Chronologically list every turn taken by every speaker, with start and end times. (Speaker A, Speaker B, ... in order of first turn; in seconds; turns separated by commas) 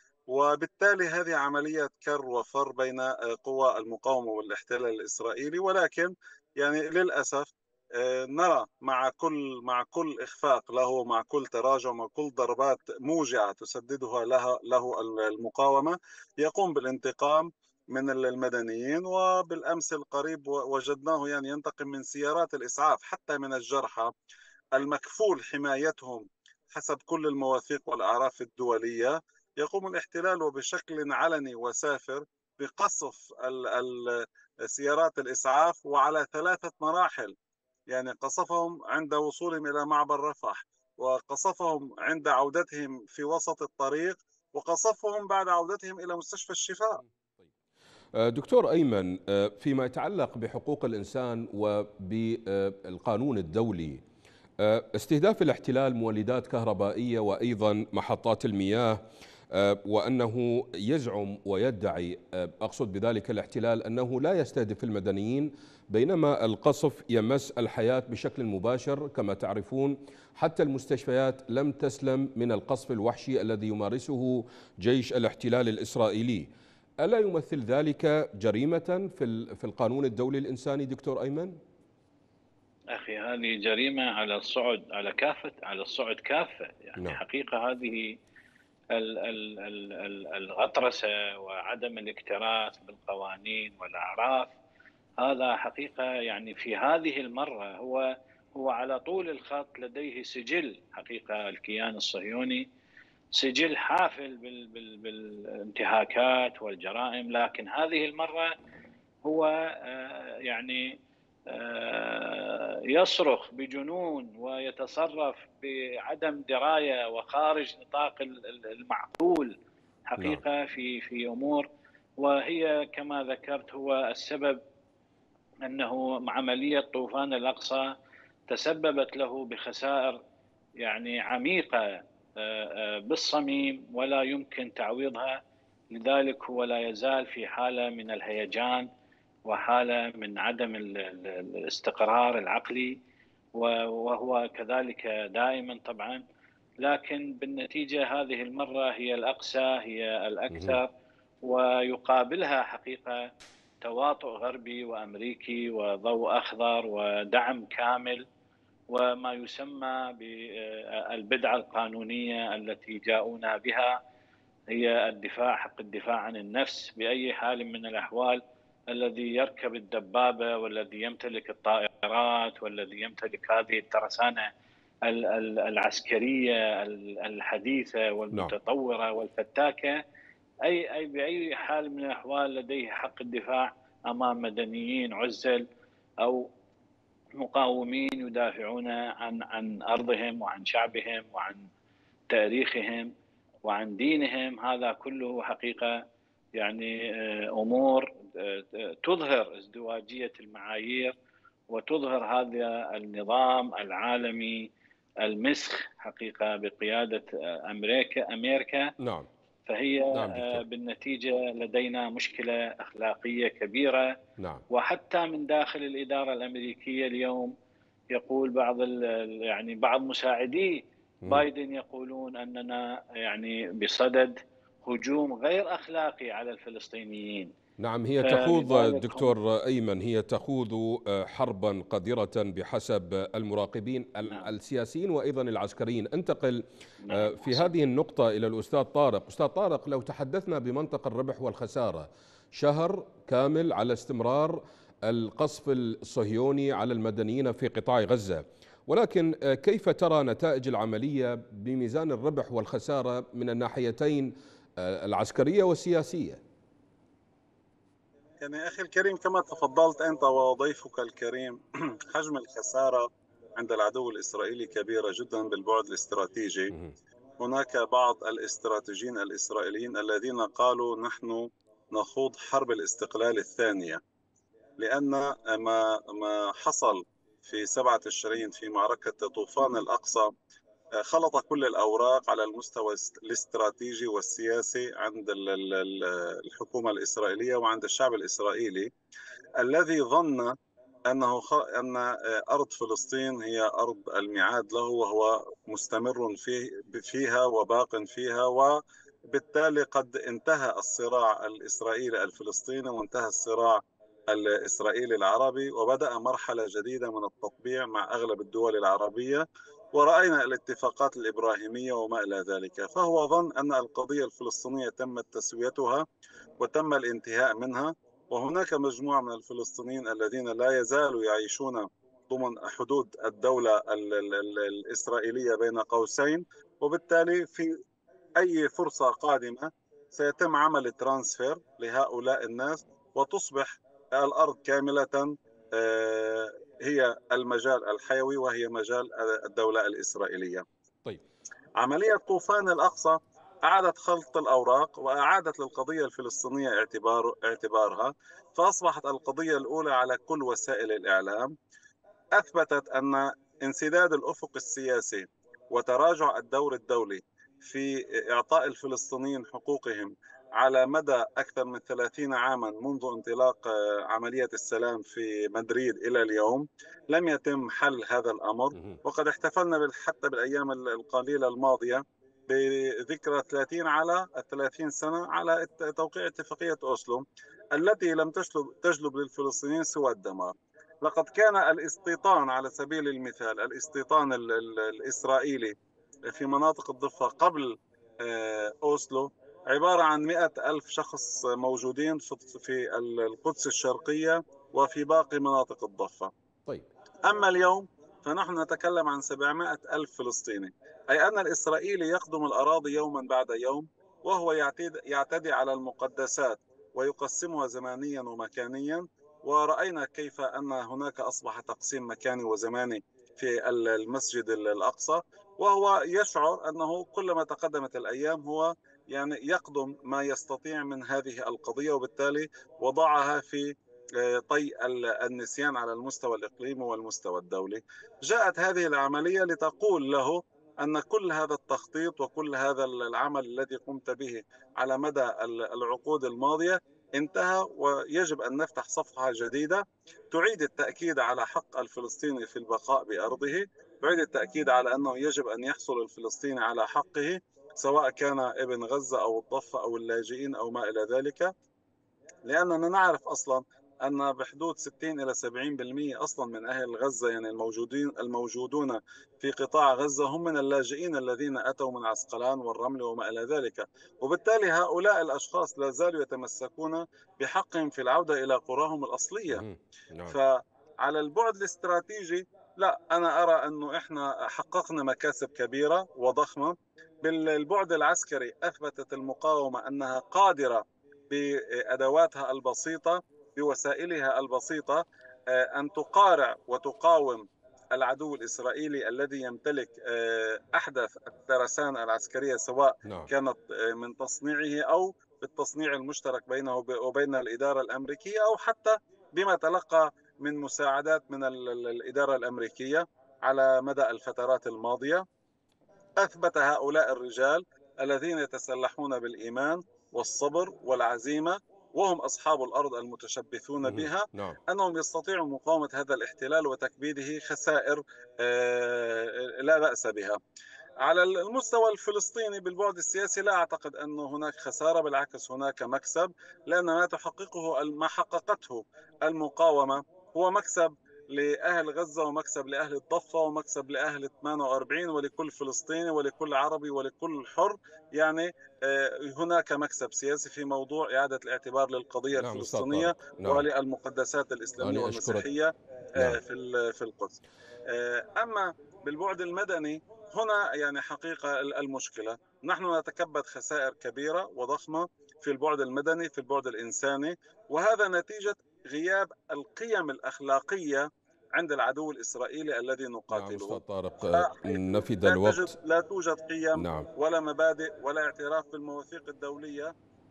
Speaker A: 0.3-24.1, Speaker A: 24.8-37.4, Speaker A: 37.9-47.0, Speaker B: 46.9-47.5, Speaker B: 48.1-54.0, Speaker B: 54.6-59.0, Speaker B: 59.5-76.5, Speaker B: 77.0-81.6, Speaker C: 82.9-88.2, Speaker C: 88.9-94.5, Speaker C: 95.2-102.7, Speaker C: 103.3-108.5, Speaker C: 109.2-119.5, Speaker C: 120.1-121.7, Speaker C: 122.2-124.6, Speaker C: 125.7-127.9, Speaker C: 128.5-130.2, Speaker C: 130.8-138.9, Speaker C: 139.5-143.0, Speaker C: 143.5-146.2, Speaker C: 146.8-150.9, Speaker B: 150.5-150.8, Speaker C: 151.4-153.3, Speaker C: 153.8-158.2, Speaker C: 158.9-164.0, Speaker C: 164.7-174.5, Speaker C: 175.1-180.0, Speaker C: 180.7-185.7, Speaker C: 186.2-186.5, Speaker C: 187.4-191.7, Speaker C: 192.3-193.1, Speaker C: 193.7-196.0, Speaker C: 196.6-201.1, Speaker C: 201.7-204.7, Speaker C: 205.2-208.9, Speaker B: 209.0-209.3, Speaker C: 209.7-214.1, Speaker B: 210.1-210.6, Speaker B: 214.4-214.6, Speaker C: 214.7-217.5, Speaker C: 218.1-227.5, Speaker B: 227.8-256.4, Speaker C: 228.2-229.3, Speaker C: 237.1-237.7, Speaker A: 258.4-266.7, Speaker A: 267.4-274.0, Speaker A: 274.8-280.3, Speaker A: 281.0-288.9, Speaker A: 289.6-290.6, Speaker A: 291.1-316.1, Speaker A: 316.6-327.8, Speaker A: 328.4-340.6, Speaker A: 341.8-351.5, Speaker A: 352.4-396.3, Speaker A: 397.2-451.5, Speaker A: 452.5-469.6, Speaker B: 469.5-470.4, Speaker A: 470.3-505.2, Speaker B: 493.1-493.3, Speaker A: 506.2-520.4, Speaker B: 513.8-514.6, Speaker A: 521.0-563.8, Speaker B: 542.4-543.7, Speaker B: 544.8-545.5, Speaker B: 563.3-565.7, Speaker A: 564.3-569.9, Speaker B: 566.8-567.1